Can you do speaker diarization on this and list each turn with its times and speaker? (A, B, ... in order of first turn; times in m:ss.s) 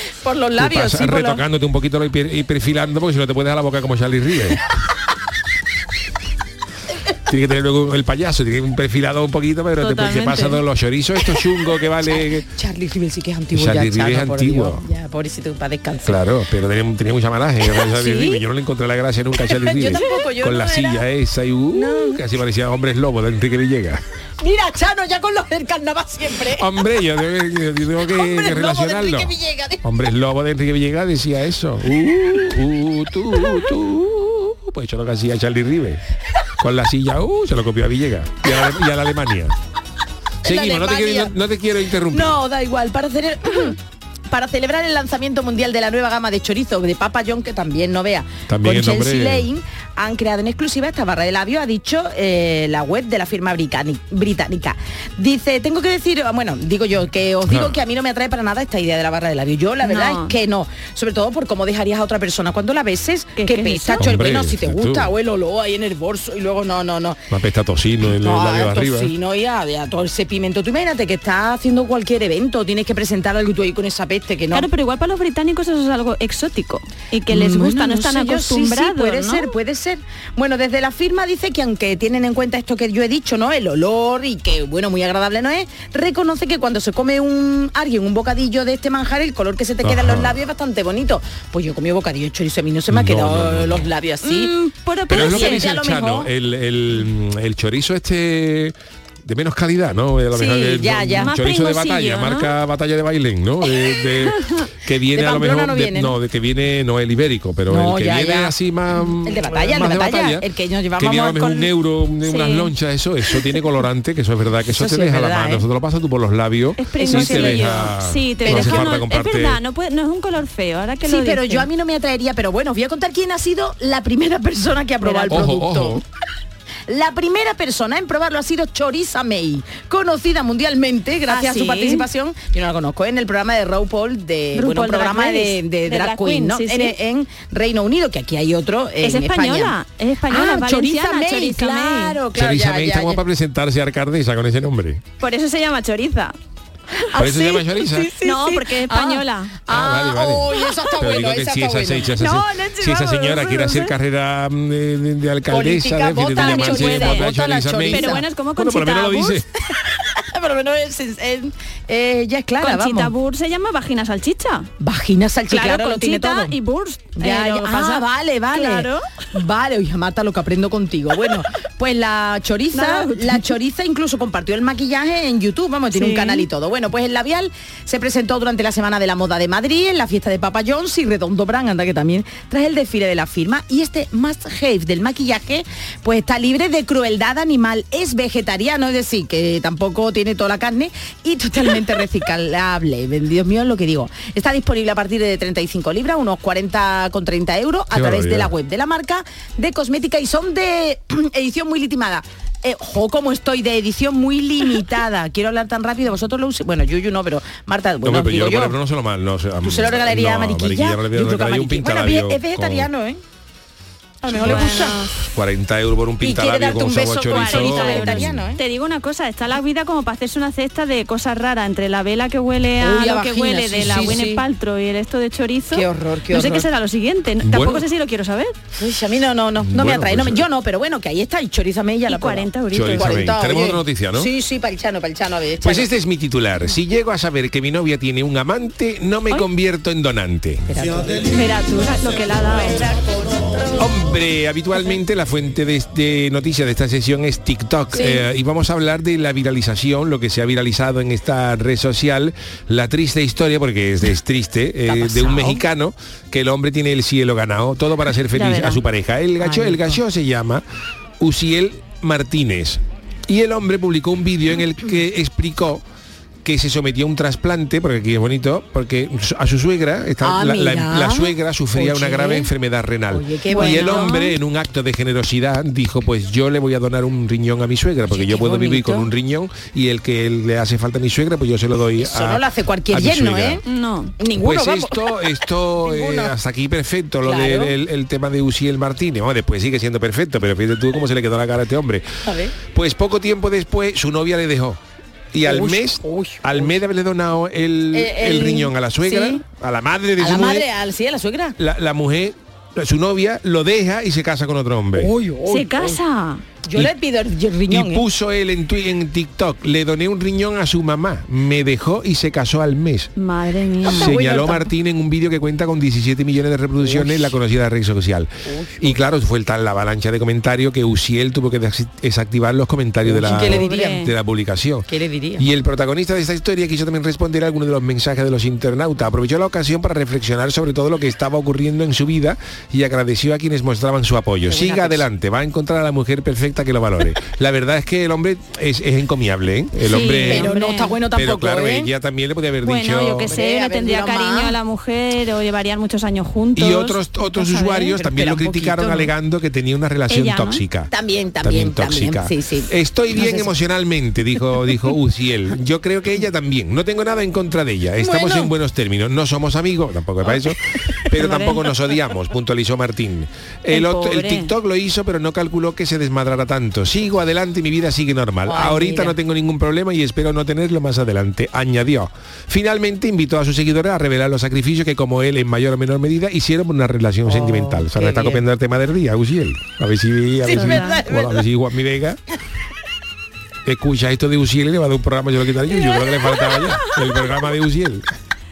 0:00.2-0:01.4 A
0:00.6-0:04.6 B
0:07.3-0:12.5 B
0:09.8-0:10.6 C
0:12.0-0:16.2 A
0:13.5-0:14.8 B
0:16.0-0:24.0 B
0:17.9-0:18.4 A
0:19.5-0:21.0 A
0:21.7-0:22.2 A
0:24.4-0:26.7 A
0:26.5-0:36.0 B
0:28.1-0:29.8 A
0:36.6-0:39.5 B
0:40.4-0:41.4 A
0:40.4-0:42.4 B
0:42.1-0:43.8 A
0:44.3-1:07.2 A
0:48.5-0:49.5 B
0:57.5-0:57.8 B
0:59.8-1:00.3 C
1:03.4-1:04.1 C
1:04.0-1:05.1 B
1:07.3-1:09.1 B
1:08.1-1:14.7 A
1:14.5-1:19.5 C
1:17.3-1:34.5 A
1:29.8-1:30.4 B
1:32.9-1:33.9 B
1:34.2-1:35.7 C
1:35.1-1:36.3 A
1:35.1-1:50.5 B
1:40.3-1:41.3 A
1:41.2-1:42.5 C
1:44.4-1:44.7 C
1:45.1-1:46.2 A
1:47.7-1:48.6 A
1:49.2-1:51.7 A
1:51.0-1:59.6 B
1:52.2-1:52.7 C
1:54.7-1:55.6 A
1:56.8-2:01.7 C
1:57.0-1:57.9 A
1:58.4-1:59.0 A
2:01.1-2:06.0 A
2:05.0-2:05.5 C
2:05.3-2:06.0 B
2:06.9-2:19.7 A
2:11.3-2:12.1 C
2:14.6-2:17.0 C
2:19.0-2:22.2 C
2:20.3-2:23.2 A
2:22.3-2:25.0 B
2:25.2-2:26.4 C
2:27.1-2:32.2 A
2:27.2-2:28.1 B
2:28.2-2:29.6 C
2:29.7-2:39.5 B
2:30.6-2:31.0 C
2:32.2-2:33.9 C
2:35.5-2:38.2 A
2:36.4-2:37.2 C
2:37.9-2:39.4 C
2:39.9-2:43.1 A
2:42.6-2:44.7 C
2:44.8-2:46.6 A
2:45.5-2:49.1 C
2:47.2-3:28.8 A
2:52.7-2:53.6 C
2:55.9-2:56.5 C
3:17.9-3:18.5 B
3:28.0-3:32.9 B
3:29.6-3:33.2 A
3:34.2-3:35.0 A
3:34.2-3:35.1 C
3:34.4-3:34.7 B
3:35.3-3:38.4 B
3:36.2-3:38.6 A
3:37.3-3:48.5 C
3:42.8-3:44.4 A
3:45.7-3:46.7 A
3:47.4-3:47.8 B
3:48.7-3:55.9 A
3:49.6-3:50.5 B
3:52.1-3:53.3 C
3:52.7-3:54.3 B
3:55.6-4:00.6 B
4:00.7-4:01.4 A
4:01.2-4:02.9 C
4:02.8-4:03.7 A
4:03.8-4:20.6 B
4:14.9-4:15.6 A
4:18.3-4:18.8 C
4:19.4-4:19.9 A
4:21.2-4:25.8 B
4:26.4-4:43.6 B
4:30.2-4:32.5 A
4:33.1-4:34.1 A
4:33.5-4:34.4 C
4:38.1-4:39.1 A
4:42.0-4:43.6 A
4:43.6-4:44.2 C
4:44.2-4:45.2 A
4:44.3-4:52.1 B
4:45.8-4:46.3 A
4:47.2-4:47.7 A
4:52.2-4:52.6 A
4:52.7-4:54.8 B
4:55.3-5:00.7 B
4:55.4-4:56.8 A
4:57.9-4:59.4 A
5:00.2-5:01.6 A
5:01.6-5:05.1 B
5:05.0-5:06.0 A
5:05.5-5:06.4 C
5:06.6-5:08.0 A
5:07.7-5:13.1 B
5:13.2-5:14.2 C
5:13.8-5:40.5 B
5:13.9-5:14.6 A
5:16.8-5:17.3 A
5:18.5-5:19.0 A
5:23.0-5:24.0 A
5:23.3-5:24.1 C
5:24.9-5:25.4 A
5:34.5-5:35.0 A
5:39.8-5:41.0 C
5:40.3-5:41.9 A
5:41.1-5:43.3 B
5:42.6-5:48.0 C
5:43.3-5:44.6 A
5:46.6-6:22.2 B
5:48.0-5:49.1 A
5:50.1-5:50.6 C
5:50.9-5:53.5 A
5:58.0-5:58.5 A
6:01.1-6:01.6 C
6:03.7-6:04.5 C
6:08.5-6:09.2 A
6:17.3-6:18.4 A
6:20.4-6:21.4 A
6:20.5-6:21.0 C
6:23.6-6:28.1 B